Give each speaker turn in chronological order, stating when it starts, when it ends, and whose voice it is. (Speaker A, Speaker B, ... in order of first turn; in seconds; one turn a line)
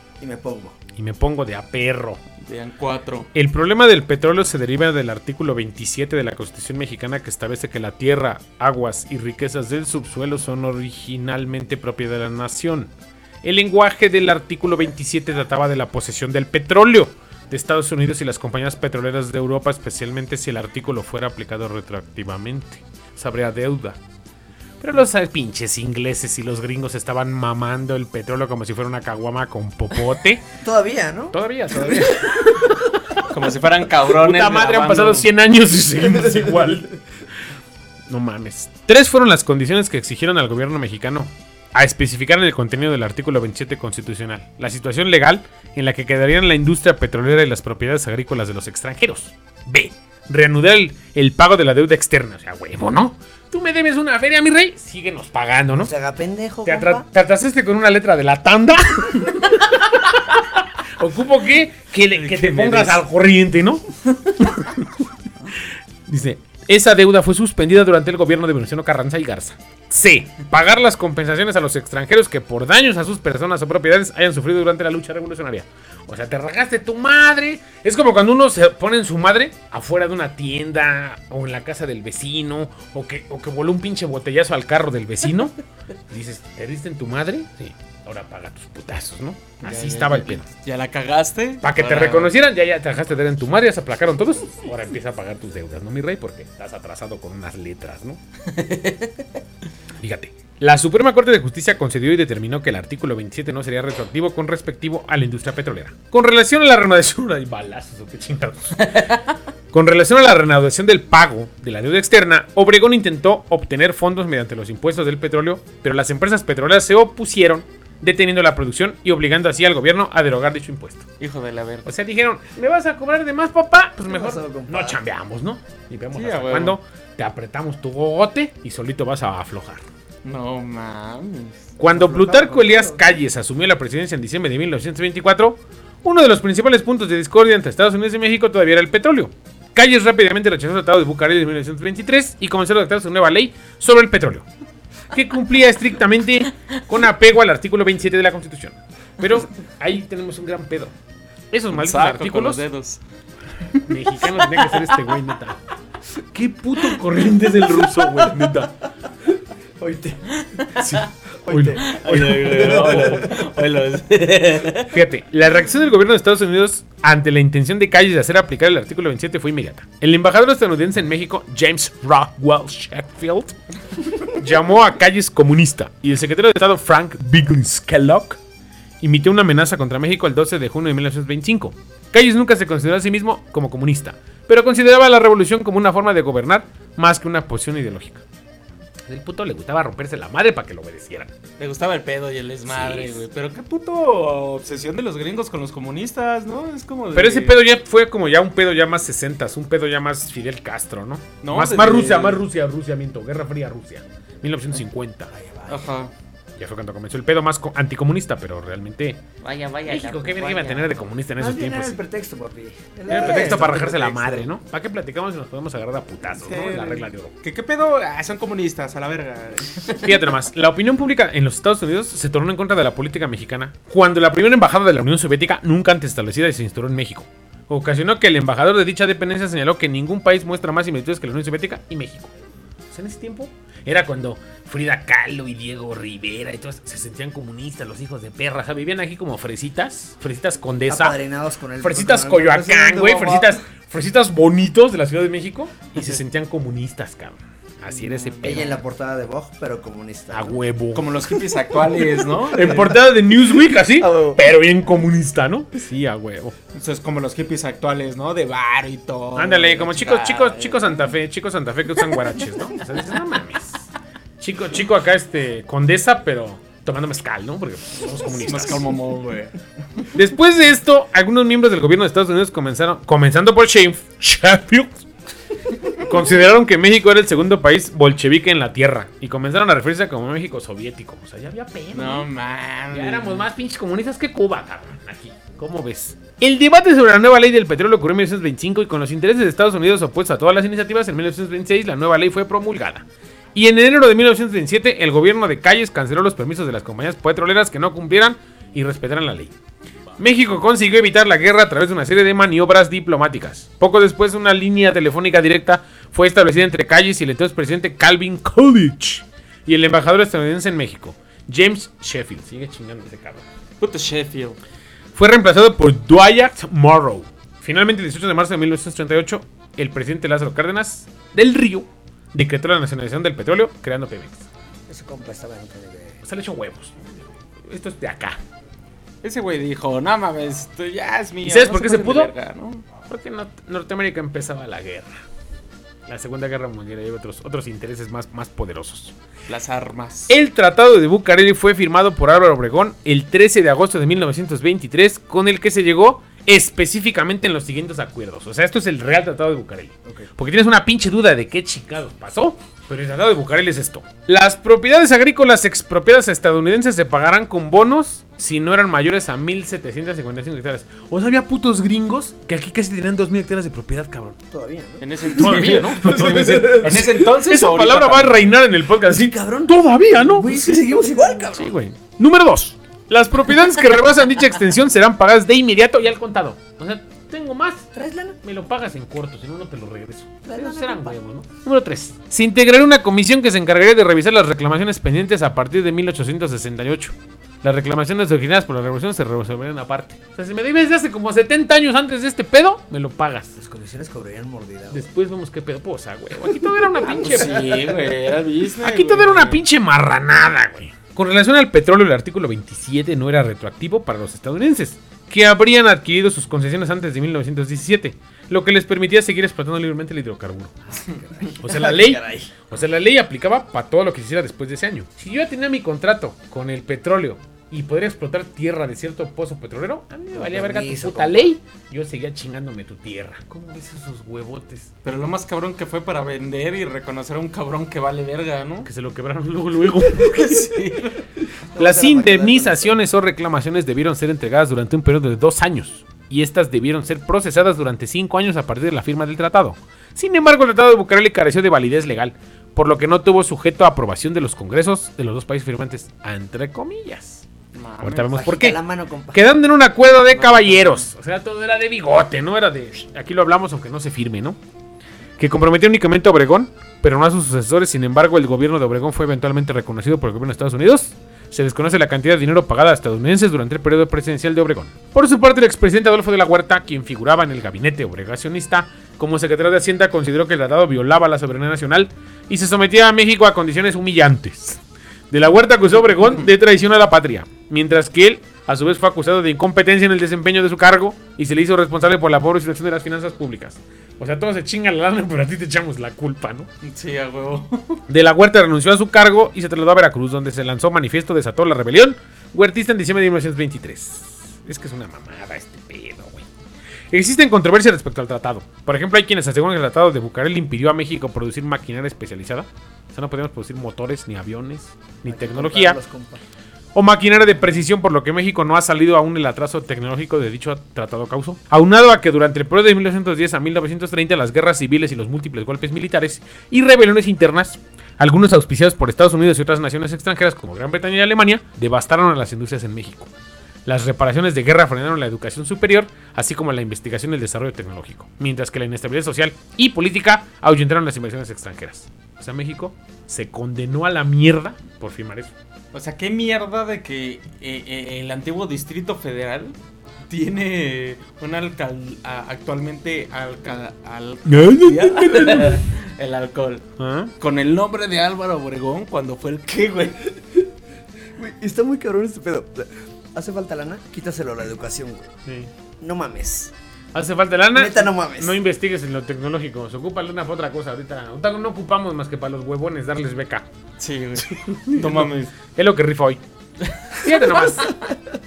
Speaker A: 0.2-0.8
Speaker B: 0.9-2.2
Speaker C: 2.4-3.3
Speaker B: 3.3-12.9
Speaker B: 13.4-24.0
Speaker B: 24.8-30.4
Speaker A: 30.6-32.4
Speaker B: 31.3-32.8
Speaker C: 33.2-35.3
Speaker B: 34.2-36.9
Speaker A: 36.0-37.0
Speaker B: 38.1-55.9
Speaker A: 55.7-57.0
Speaker B: 56.6-63.8
Speaker C: 62.1-63.0
Speaker B: 64.4-64.8
Speaker B: 66.1-85.5
Speaker B: 86.1-90.5
Speaker C: 89.6-92.3
Speaker B: 91.6-98.2
Speaker C: 98.5-99.2
Speaker B: 100.0-109.1
Speaker B: 109.7-121.0
Speaker C: 121.2-121.9
Speaker B: 121.8-129.8
Speaker A: 124.0-125.0
Speaker C: 126.1-126.8
Speaker C: 130.2-131.7
Speaker B: 131.8-144.4
Speaker A: 131.9-133.2
Speaker B: 145.1-150.9
Speaker B: 151.5-152.6
Speaker C: 151.7-153.0
Speaker B: 153.8-155.6
Speaker C: 154.3-154.8
Speaker B: 156.2-158.7
Speaker A: 159.8-160.3
Speaker C: 160.4-160.8
Speaker B: 160.8-163.2
Speaker A: 161.4-163.4
Speaker C: 161.8-164.9
Speaker B: 164.9-173.6
Speaker B: 174.2-178.4
Speaker B: 179.0-188.2
Speaker B: 189.1-191.3
Speaker C: 191.6-197.6
Speaker B: 192.7-193.2
Speaker B: 197.1-205.3
Speaker C: 201.4-202.4
Speaker A: 205.3-205.9
Speaker C: 205.7-206.1
Speaker B: 206.6-209.2
Speaker C: 209.4-210.9
Speaker B: 209.9-212.0
Speaker A: 211.4-214.5
Speaker C: 213.1-213.7
Speaker B: 213.1-217.3
Speaker C: 216.4-220.2
Speaker B: 220.0-232.3
Speaker B: 232.9-241.2
Speaker A: 240.9-243.6
Speaker B: 241.8-248.8
Speaker A: 248.4-250.6
Speaker B: 250.3-251.1
Speaker C: 250.9-253.0
Speaker B: 252.5-256.5
Speaker A: 253.8-254.4
Speaker C: 256.7-261.0
Speaker B: 259.3-263.9
Speaker B: 264.4-268.8
Speaker C: 268.4-270.1
Speaker B: 270.1-275.0
Speaker B: 275.9-282.3
Speaker C: 281.9-283.4
Speaker B: 282.9-299.5
Speaker B: 300.2-313.4
Speaker C: 313.8-314.6
Speaker B: 315.1-324.4
Speaker A: 324.9-326.2
Speaker B: 326.2-327.0
Speaker B: 327.6-328.4
Speaker C: 329.2-332.8
Speaker B: 331.4-332.3
Speaker B: 333.1-335.1
Speaker B: 336.1-339.1
Speaker C: 339.5-340.3
Speaker B: 340.3-364.4
Speaker A: 364.5-367.2
Speaker C: 365.0-368.5
Speaker B: 365.3-370.6
Speaker A: 369.0-371.7
Speaker C: 370.5-370.9
Speaker B: 371.5-377.9
Speaker A: 377.9-378.4
Speaker B: 378.4-393.5
Speaker A: 380.4-381.1
Speaker A: 393.6-395.1
Speaker B: 394.9-397.5
Speaker A: 397.0-398.0
Speaker C: 397.1-399.6
Speaker B: 398.8-410.7
Speaker A: 410.9-412.5
Speaker B: 411.6-424.9
Speaker A: 420.3-421.5
Speaker C: 425.0-428.9
Speaker B: 428.8-430.7
Speaker C: 430.3-431.2
Speaker A: 431.4-432.9
Speaker B: 431.8-447.4
Speaker C: 447.7-448.3
Speaker B: 448.0-448.8
Speaker A: 448.3-449.4
Speaker B: 449.3-454.6
Speaker C: 450.3-451.1
Speaker B: 455.4-474.8
Speaker B: 475.3-486.7
Speaker C: 486.8-488.0
Speaker B: 488.1-496.5
Speaker B: 497.1-506.0
Speaker A: 505.2-506.4
Speaker B: 506.9-523.3
Speaker B: 523.9-535.5
Speaker C: 535.9-539.8
Speaker C: 540.3-546.9
Speaker B: 544.4-545.9
Speaker B: 547.0-547.3
Speaker C: 547.4-550.3
Speaker A: 551.4-555.3
Speaker A: 556.0-556.7
Speaker B: 557.1-563.6
Speaker A: 557.7-558.6
Speaker C: 564.0-565.5
Speaker B: 564.5-566.4
Speaker B: 567.1-568.0
Speaker A: 567.5-568.1